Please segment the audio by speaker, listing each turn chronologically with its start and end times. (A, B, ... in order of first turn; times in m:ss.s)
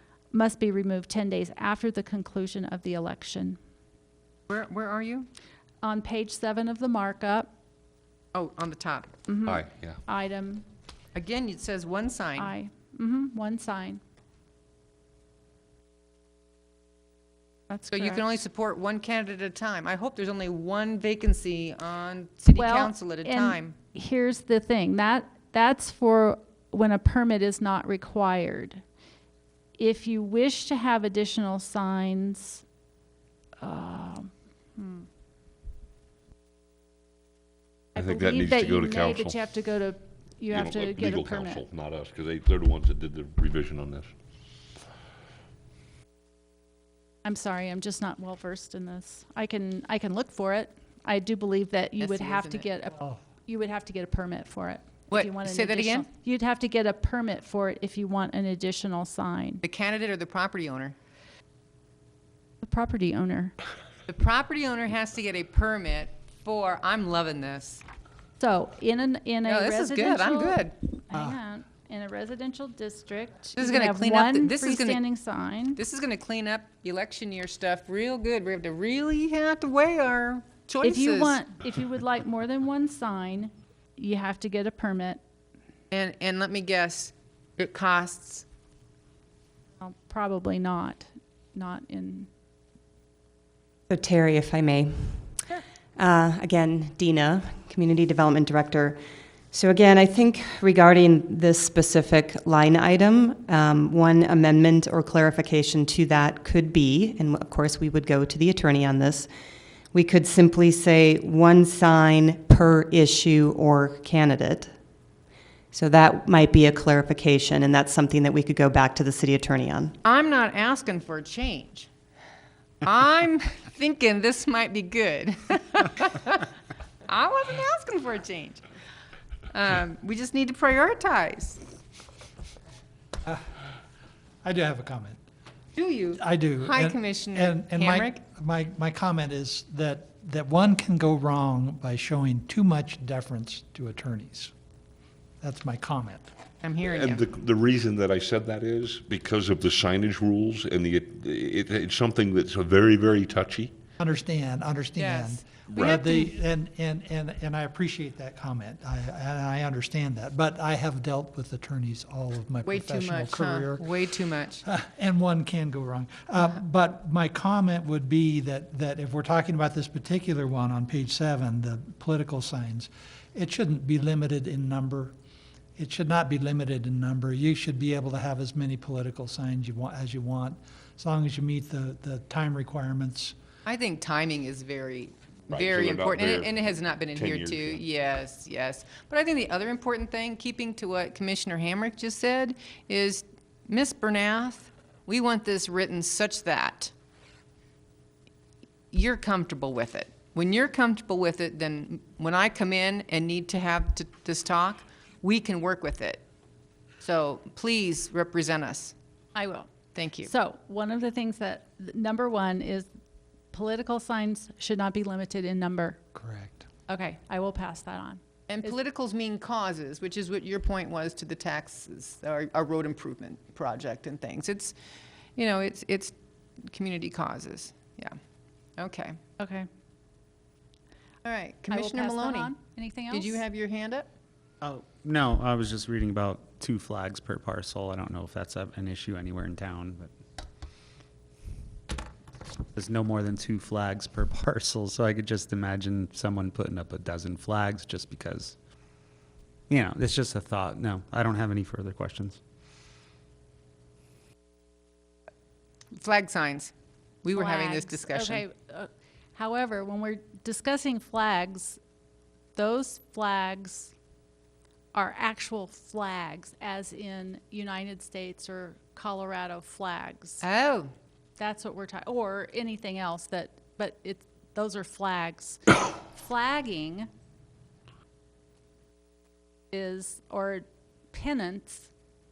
0:00.3-0:03.6 A
0:04.5-0:05.3 B
0:05.8-0:07.5 A
0:08.3-0:09.1 B
0:09.3-0:10.6 A
0:09.5-0:10.0 C
0:11.2-0:12.5 B
0:12.4-0:14.0 A
0:17.7-0:18.3 A
0:17.9-0:23.8 B
0:22.5-0:28.8 A
0:29.8-0:32.6 A
0:33.6-0:35.0 A
0:38.0-0:39.4 C
0:38.0-0:41.6 A
0:40.5-0:44.1 C
0:47.2-0:59.6 A
0:52.0-0:52.7 B
0:55.1-0:56.1 B
0:59.6-1:01.0 B
1:02.6-1:03.5 A
1:04.1-1:07.8 B
1:08.4-1:15.8 A
1:09.5-1:10.8 B
1:13.6-1:15.0 B
1:15.8-1:21.4 B
1:20.8-1:25.2 A
1:25.9-1:28.4 B
1:29.8-1:32.3 A
1:33.9-1:35.4 D
1:36.0-1:39.0 D
1:39.5-1:49.3 D
1:49.9-1:54.7 D
1:55.7-2:00.0 D
2:00.0-2:01.9 B
2:02.8-2:06.4 B
2:07.1-2:08.6 B
2:09.5-2:11.6 B
2:14.4-2:15.2 E
2:15.8-2:18.2 B
2:16.2-2:24.5 E
2:25.4-2:26.3 E
2:26.6-2:27.2 B
2:26.8-2:33.7 C
2:34.0-2:44.1 E
2:35.0-2:36.3 B
2:35.7-2:36.0 C
2:42.6-2:44.6 B
2:44.6-2:55.1 E
2:55.8-3:03.4 E
3:03.7-3:16.9 B
3:05.5-3:07.8 C
3:18.9-3:26.2 B
3:27.0-3:29.0 B
3:29.4-3:29.7 A
3:30.0-3:30.3 B
3:30.2-3:32.9 A
3:33.5-3:36.0 A
3:36.2-3:36.7 E
3:36.9-3:38.2 A
3:38.5-3:44.7 B
3:45.4-3:46.1 B
3:46.7-3:48.2 B
3:48.8-3:49.2 B
3:49.4-3:49.7 A
3:51.2-3:52.6 B
3:51.7-3:53.4 A
3:53.1-3:54.1 B
3:54.6-4:00.1 F
4:02.7-4:08.6 F
4:09.7-4:12.4 F
4:15.9-4:16.7 B
4:17.2-4:18.4 B
4:17.4-4:21.8 A
4:22.6-4:23.9 A
4:24.9-4:30.4 A
4:30.4-4:30.9 B
4:31.4-4:37.1 A
4:39.7-4:41.9 A